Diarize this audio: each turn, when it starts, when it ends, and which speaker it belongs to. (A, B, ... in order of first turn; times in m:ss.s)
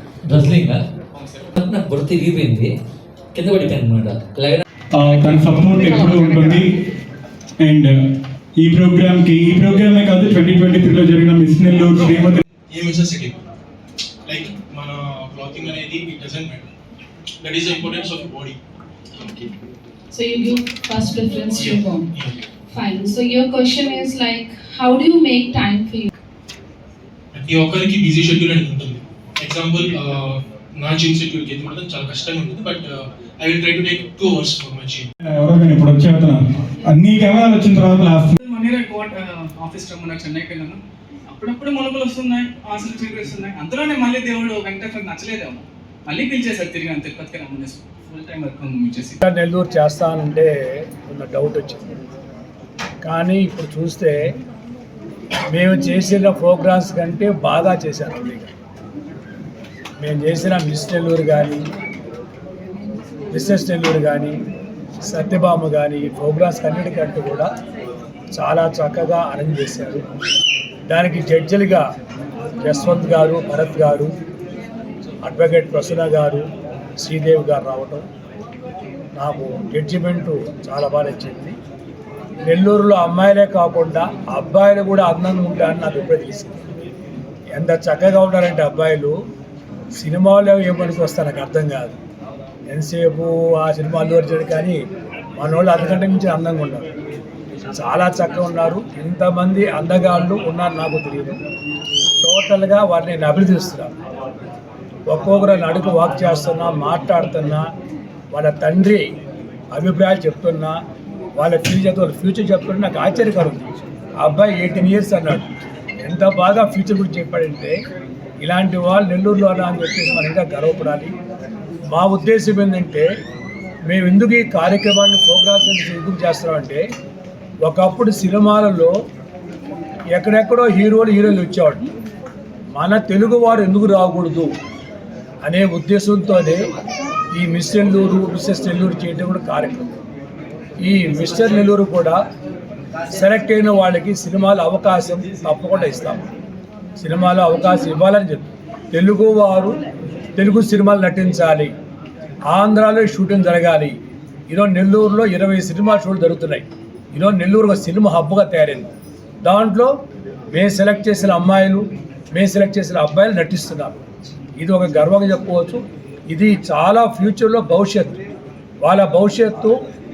0:00.2-0:00.8 A
0:01.1-0:01.5 B
0:01.6-0:02.7 A
0:03.4-0:04.6 A
0:05.0-0:06.7 C
0:05.1-0:06.6 A
0:06.0-0:06.6 B
0:07.6-0:07.9 C
0:08.6-0:12.4 C
0:11.9-0:12.1 D
0:12.7-0:13.4 D
0:14.3-0:16.7 D
0:17.4-0:18.6 D
0:19.2-0:19.5 D
0:20.1-0:22.1 E
0:21.5-0:22.4 D
0:22.7-0:26.1 E
0:27.3-0:35.1 D
0:35.4-0:38.4 C
0:38.4-0:40.8 B
0:41.3-0:49.2 B
0:49.2-0:51.9 F
0:53.0-0:54.2 F
0:55.5-0:58.5 F
1:00.0-1:01.7 F
1:03.3-1:04.4 F
1:05.0-1:07.5 F
1:08.4-1:10.0 F
1:10.9-1:11.8 F
1:12.6-1:14.1 F
1:15.2-1:16.4 F
1:17.0-1:18.0 F
1:19.2-1:21.6 F
1:22.5-1:26.6 F
1:27.6-1:29.1 F
1:30.0-1:32.0 F
1:32.7-1:34.8 F
1:35.4-1:36.9 F
1:37.7-1:41.4 F
1:42.2-1:43.9 F
1:45.1-1:47.6 F
1:48.3-1:49.1 F
1:49.7-1:50.8 F
1:51.4-1:55.5 F
1:56.0-1:57.8 F
1:58.4-2:01.1 F
2:01.9-2:03.1 F
2:03.9-2:06.8 F
2:07.6-2:08.9 F
2:10.1-2:11.9 F
2:12.8-2:14.5 F
2:15.4-2:16.7 F
2:17.4-2:19.8 F
2:20.8-2:22.2 F
2:23.1-2:26.3 F
2:27.0-2:29.8 F
2:30.4-2:31.7 F
2:32.5-2:34.0 F
2:34.5-2:38.9 F
2:39.4-2:39.9 F
2:40.5-2:44.0 F
2:44.6-2:48.2 F
2:48.8-2:49.8 F